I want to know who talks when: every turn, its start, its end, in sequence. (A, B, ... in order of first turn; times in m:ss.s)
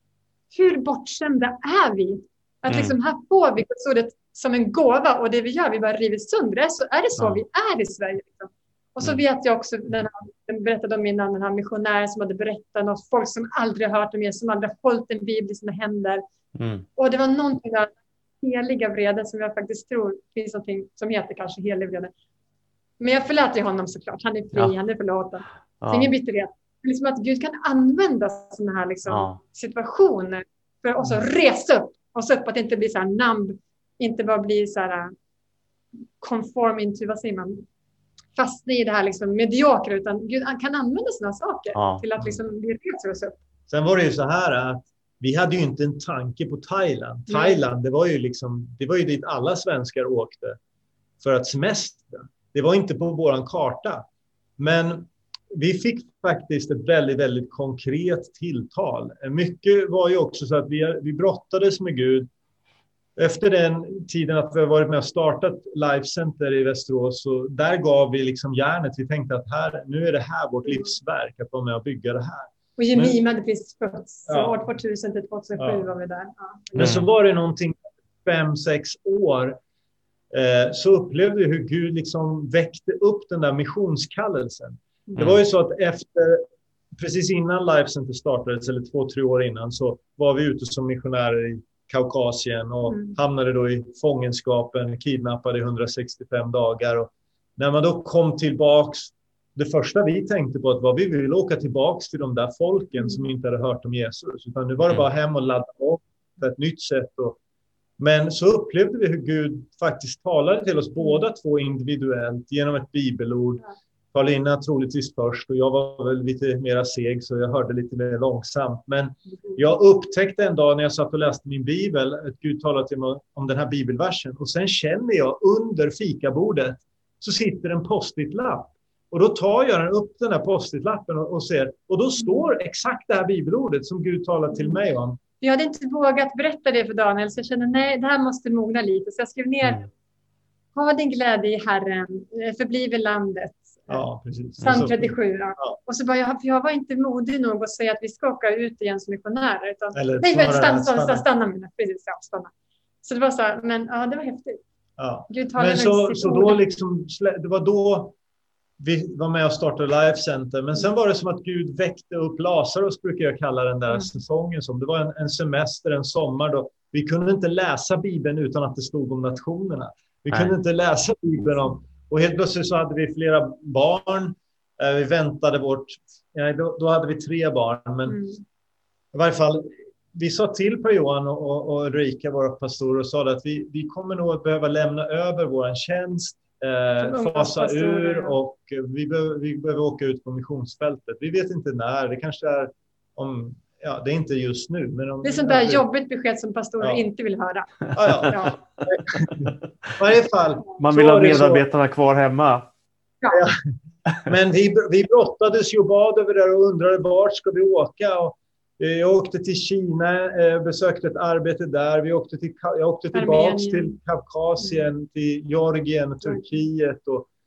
0:00.5-0:16.2 A
0:02.7-0:03.0 B
0:16.6-0:16.9 B
0:17.0-0:22.1 A
0:23.0-0:35.1 A
0:25.8-0:26.1 B
0:29.1-0:29.4 B
0:36.2-0:37.6 A
0:38.4-0:43.4 A
0:41.8-0:42.0 B
0:43.7-0:50.6 C
0:47.3-0:47.6 A
0:51.2-0:54.0 C
0:54.6-1:02.3 C
1:03.2-1:13.2 C
1:12.8-1:17.0 A
1:14.3-1:14.6 C
1:15.6-1:15.9 C
1:16.8-1:19.6 C
1:16.8-1:17.1 B
1:20.3-1:26.4 C
1:27.0-1:47.4 C
1:32.9-1:33.2 A
1:48.0-1:53.6 C
1:54.1-2:15.2 C
2:15.4-2:19.9 A
2:20.8-2:24.0 A
2:23.9-2:25.8 C
2:24.6-2:24.8 B
2:24.6-2:32.5 A
2:29.9-2:31.2 C
2:33.0-2:34.6 A
2:35.0-2:38.2 C
2:35.3-2:36.6 A
2:38.8-2:58.2 C
2:58.1-2:58.4 A
2:59.1-3:15.8 C
3:07.0-3:08.4 A
3:15.2-3:18.6 A
3:17.9-3:21.6 C
3:20.8-3:22.7 B
3:23.3-3:23.6 C
3:24.2-3:37.3 C
3:33.1-3:34.0 A